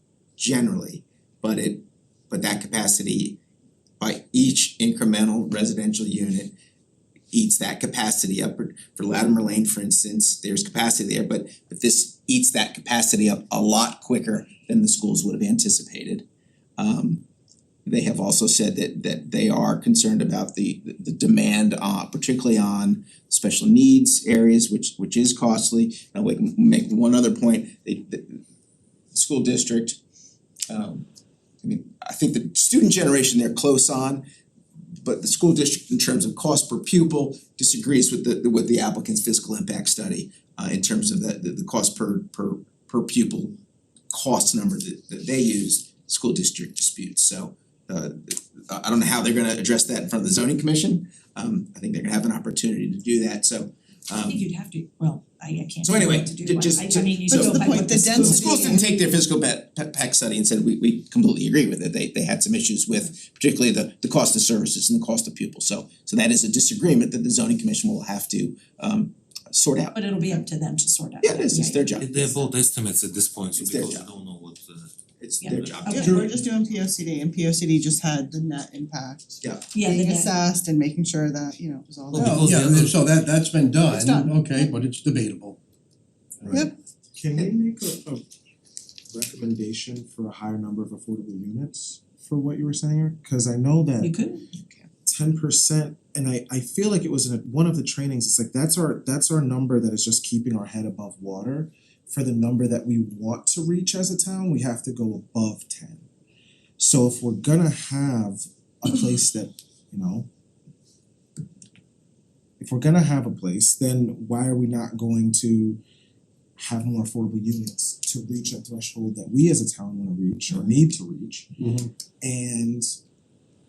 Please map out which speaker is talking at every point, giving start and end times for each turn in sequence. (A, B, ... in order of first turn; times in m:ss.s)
0:00.4-0:03.4 A
0:04.0-0:06.5 A
0:07.3-0:16.2 A
0:16.8-0:17.2 A
0:17.8-0:28.4 A
0:29.1-0:30.0 A
0:30.7-0:31.0 A
0:31.6-0:34.2 A
0:35.0-0:43.6 A
0:44.1-0:54.4 A
0:54.2-0:58.8 B
0:55.8-1:10.0 A
0:57.3-0:58.8 C
1:09.9-1:11.9 B
1:11.2-1:12.4 A
1:12.0-1:14.9 D
1:13.6-1:14.1 A
1:15.2-1:16.3 A
1:15.4-1:16.2 B
1:15.5-1:16.0 D
1:15.9-1:22.5 C
1:19.7-1:20.3 B
1:22.1-1:23.0 D
1:22.1-1:25.6 E
1:23.9-1:24.6 C
1:26.4-1:26.7 E
1:27.1-1:28.2 F
1:29.1-1:34.1 F
1:34.0-1:34.4 B
1:35.0-1:46.0 F
1:46.8-1:50.3 F
1:52.6-1:55.8 F
1:56.6-2:01.6 F
2:01.6-2:01.9 E
2:02.2-2:03.0 F